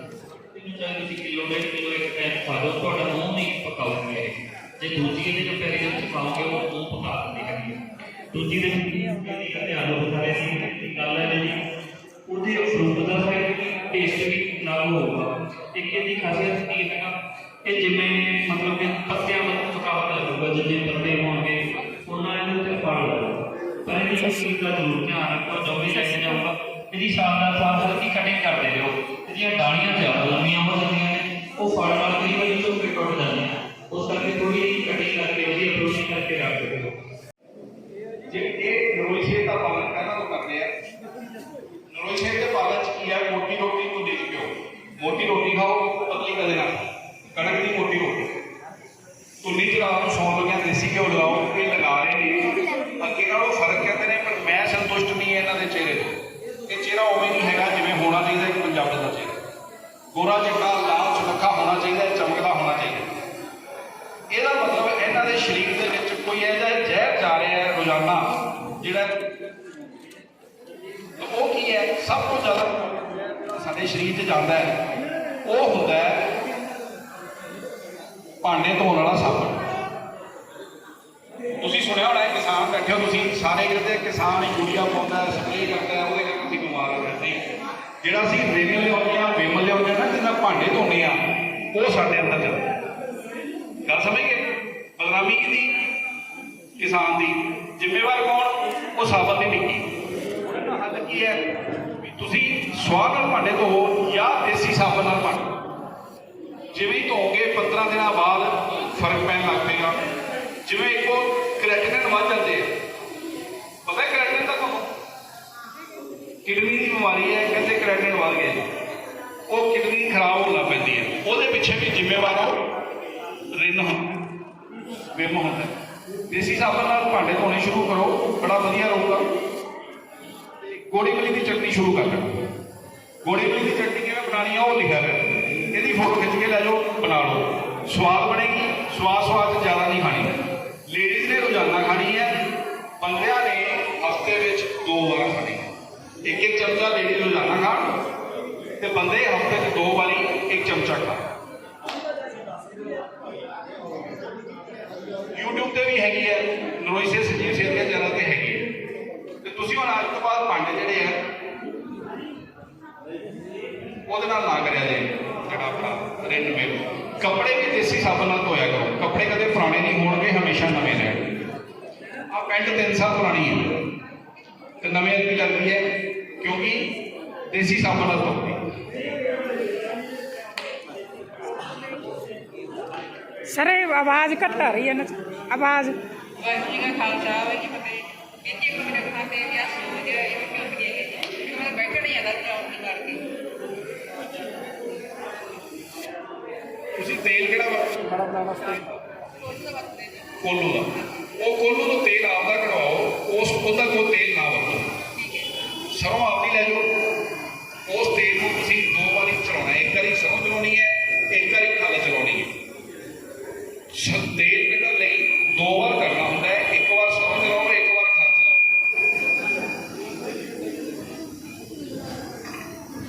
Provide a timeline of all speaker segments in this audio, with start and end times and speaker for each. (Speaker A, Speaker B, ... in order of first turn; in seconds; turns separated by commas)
Speaker A: 0.5-7.8, Speaker A: 8.3-11.6, Speaker A: 12.3-37.0, Speaker B: 38.3-40.7, Speaker B: 41.9-48.3, Speaker B: 49.4-59.4, Speaker B: 60.1-63.1, Speaker B: 64.3-69.2, Speaker B: 71.2-74.9, Speaker B: 75.4-76.3, Speaker B: 78.4-79.6, Speaker B: 81.6-87.5, Speaker B: 88.0-91.2, Speaker B: 91.7-92.7, Speaker B: 93.8-95.8, Speaker B: 96.8-99.9, Speaker B: 100.4-101.5, Speaker B: 102.0-105.6, Speaker B: 106.7-110.0, Speaker B: 110.7-112.8, Speaker B: 113.8-114.9, Speaker B: 116.4-118.7, Speaker B: 119.5-122.6, Speaker B: 123.5-124.2, Speaker B: 125.1-125.8, Speaker B: 126.3-129.3, Speaker B: 130.6-132.4, Speaker B: 133.2-142.4, Speaker B: 143.0-147.9, Speaker B: 148.8-151.2, Speaker B: 155.3-158.7, Speaker B: 159.4-161.2, Speaker B: 164.1-171.3, Speaker B: 172.3-173.8, Speaker B: 174.8-175.9, Speaker B: 176.4-176.9, Speaker B: 177.5-178.6, Speaker C: 183.5-186.0, Speaker D: 186.4-193.3, Speaker B: 197.0-198.9, Speaker D: 199.4-200.4, Speaker B: 200.4-205.0, Speaker D: 205.2-205.5, Speaker B: 205.9-206.9, Speaker B: 207.9-212.5, Speaker B: 213.9-218.6